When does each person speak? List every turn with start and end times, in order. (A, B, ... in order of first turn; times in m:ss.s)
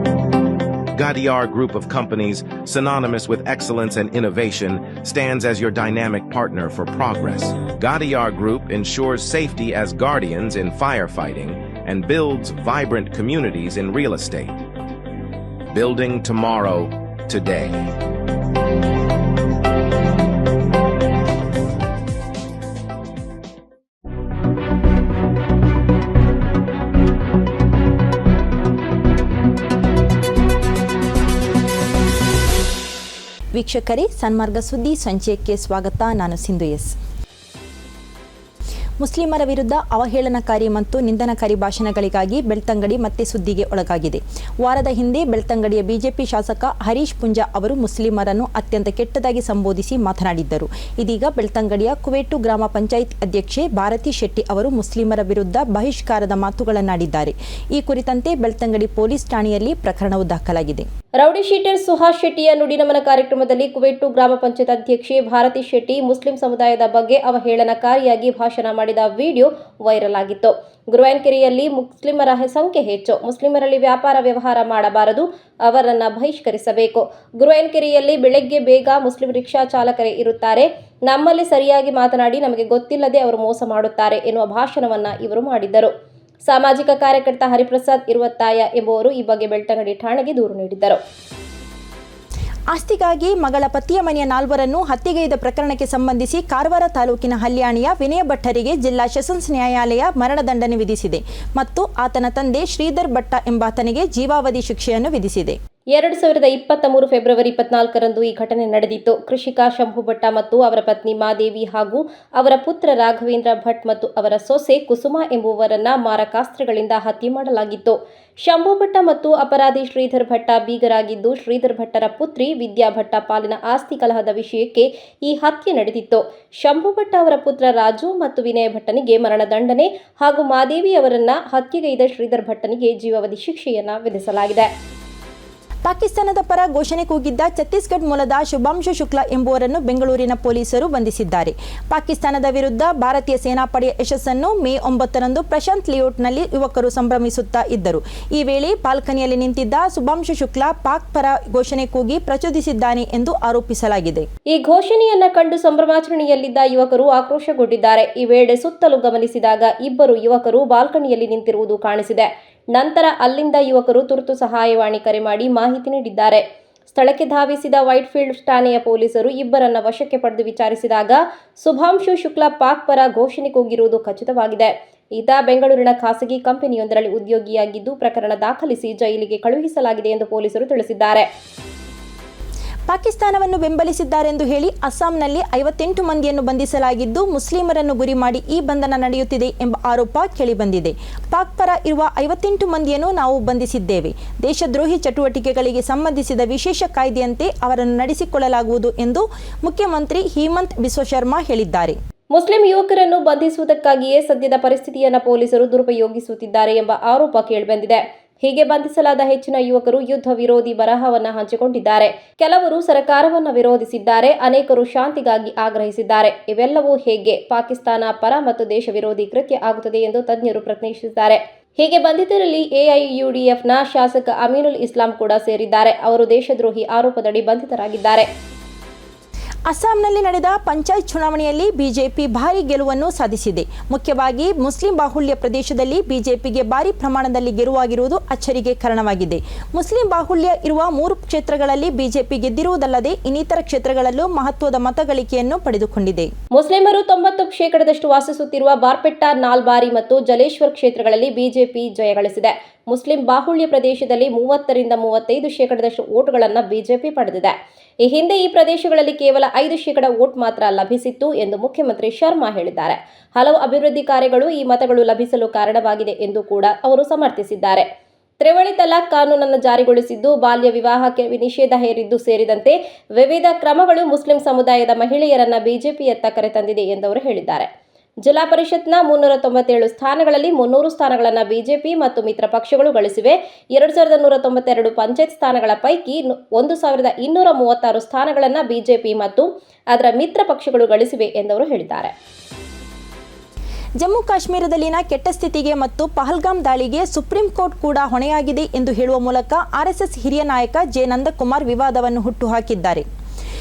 0:01.0-0:14.6 A
0:15.7-0:17.8 A
0:33.5-0:37.0 B
0:39.0-1:00.9 B
1:01.2-1:25.9 C
1:26.4-1:31.0 C
1:32.7-1:45.6 B
1:45.9-2:14.7 C
2:15.8-2:34.2 B
2:34.5-3:01.3 C
3:02.9-3:22.0 B
3:22.3-3:48.2 C
3:49.7-4:06.3 B
4:06.5-4:27.8 C
4:28.4-4:37.7 C
4:38.2-4:52.1 C
4:54.0-5:03.0 B